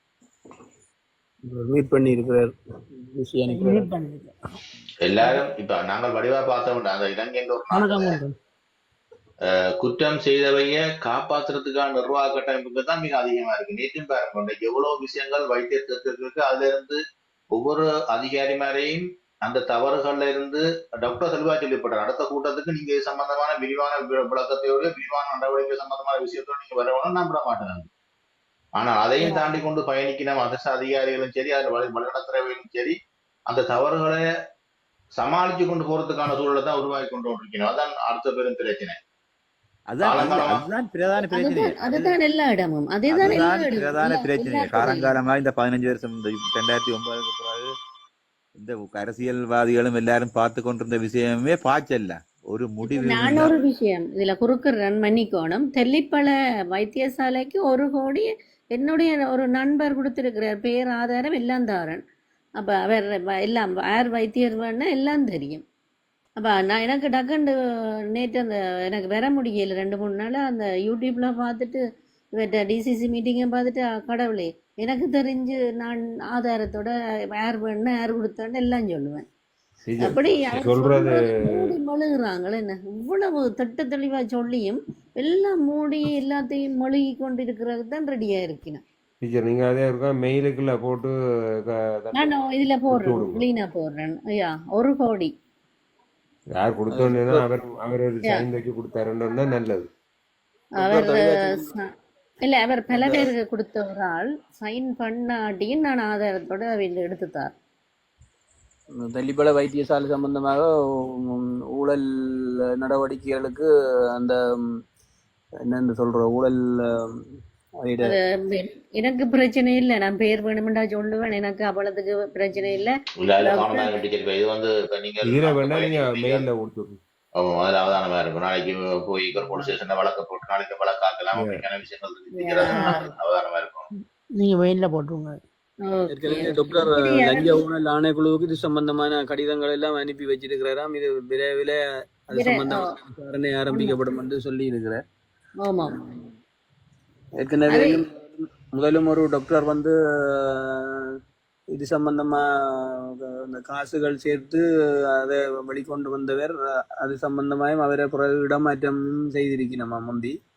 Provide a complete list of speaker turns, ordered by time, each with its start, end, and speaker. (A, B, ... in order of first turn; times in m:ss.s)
0:01.5-0:03.9 A
0:03.5-0:04.3 B
0:05.0-0:08.2 C
0:07.7-0:08.3 B
0:09.4-0:17.0 C
0:17.5-0:27.9 C
0:28.8-0:33.0 C
0:33.5-0:34.2 C
0:35.1-0:39.0 C
0:39.9-0:42.1 D
0:40.0-0:40.7 C
0:41.3-0:45.1 E
0:43.1-0:47.7 D
0:48.6-0:53.5 D
0:52.9-1:02.0 E
1:02.6-1:05.6 E
1:06.4-1:07.5 E
1:08.1-1:11.8 E
1:12.4-1:19.2 E
1:19.8-1:21.8 F
1:20.0-1:28.8 E
1:29.2-1:33.4 F
1:32.1-1:35.3 E
1:36.5-1:39.9 F
1:36.9-1:37.4 A
1:40.8-1:41.9 E
1:40.8-1:41.7 A
1:42.4-1:47.5 E
1:42.9-1:43.3 A
1:49.0-1:50.7 A
1:51.2-1:52.0 A
1:52.7-1:54.4 A
1:55.6-1:57.0 A
1:57.8-1:58.2 A
1:58.0-2:04.0 E
2:03.2-2:06.5 C
2:05.2-2:07.0 F
2:07.4-2:13.9 C
2:11.3-2:11.6 F
2:12.4-2:13.0 E
2:12.6-2:13.1 B
2:14.0-2:15.4 B
2:15.8-2:17.7 E
2:16.1-2:25.0 A
2:22.3-2:23.0 E
2:23.7-2:24.2 E
2:25.6-2:26.3 E
2:27.4-2:30.7 A
2:27.7-2:28.1 E
2:31.7-2:32.4 A
2:33.0-2:34.6 A
2:35.2-2:40.4 A